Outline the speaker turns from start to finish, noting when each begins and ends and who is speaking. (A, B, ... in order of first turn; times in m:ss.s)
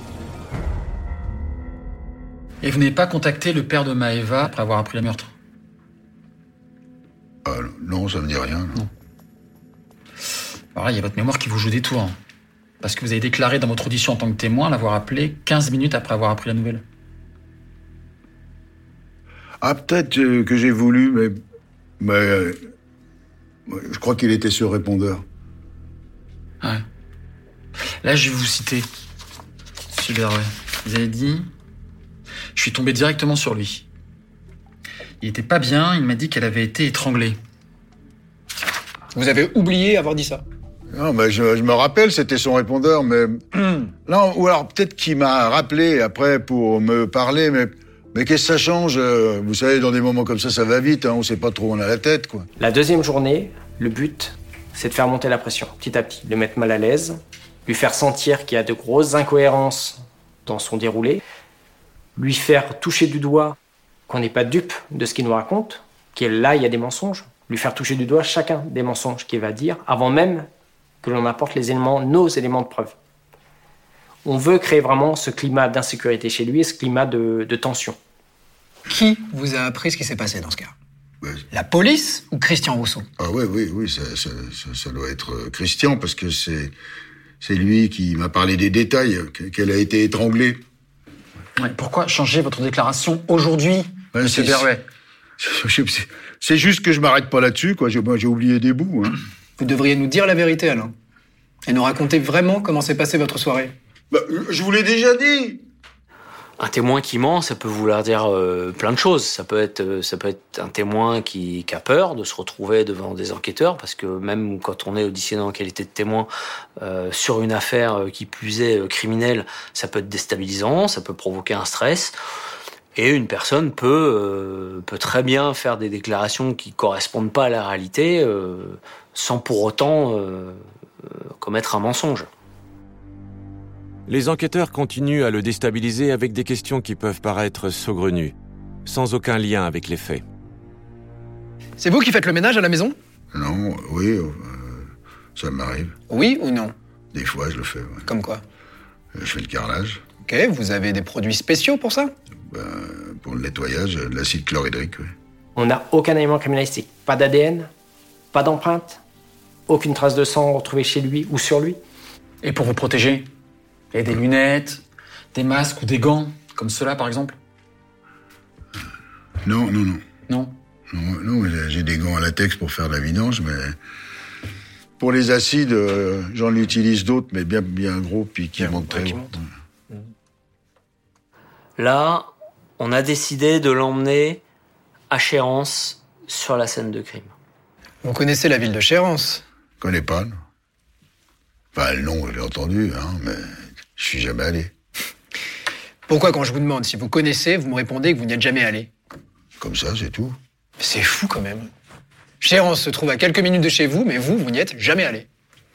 0:02.6-0:05.3 A
0:07.5-0:08.8 B
0:10.7-0:12.2 A
0:12.8-0:16.8 A
0:19.6-0:21.4 B
0:22.0-0:22.6 B
0:23.7-0:25.2 B
0:28.0-0:28.9 A
0:29.9-0:31.5 A
0:32.6-0:33.9 A
0:35.2-0:37.4 A
0:39.1-0:40.4 C
0:40.9-0:52.5 B
0:52.6-1:01.2 D
1:02.2-1:03.6 D
1:04.1-1:10.5 D
1:11.0-1:13.0 D
1:14.2-1:18.0 D
1:18.9-1:20.7 C
1:21.5-1:23.1 C
1:23.2-1:26.7 B
1:27.4-1:30.6 B
1:31.6-1:34.8 A
1:34.1-1:34.7 B
1:35.4-1:39.2 B
1:39.6-1:40.9 C
1:41.7-1:43.7 C
1:44.1-1:45.6 B
1:46.6-1:56.3 E
1:56.8-2:02.2 E
2:03.0-2:12.3 E
2:14.1-2:18.3 F
2:18.9-2:20.2 F
2:21.8-2:23.0 C
2:23.3-2:26.0 B
2:26.1-2:26.7 C
2:27.1-2:28.1 B
2:28.1-2:28.4 C
2:29.2-2:30.0 B
2:30.2-2:32.1 C
2:32.5-2:35.1 B
2:35.6-2:37.7 D
2:38.3-2:39.0 D
2:39.7-2:41.8 D
2:42.4-2:43.3 A
2:43.9-2:44.8 A
2:45.3-2:47.4 A
2:49.4-2:50.0 B
2:50.3-2:50.6 A
2:50.9-2:53.8 B
2:55.0-2:59.4 B
2:58.6-2:59.3 C
3:01.8-3:04.4 E
3:05.1-3:07.3 E
3:08.0-3:09.4 C
3:09.8-3:10.4 B
3:11.7-3:14.7 B
3:16.1-3:18.9 C
3:19.6-3:20.4 B
3:20.8-3:21.7 C
3:22.4-3:25.3 C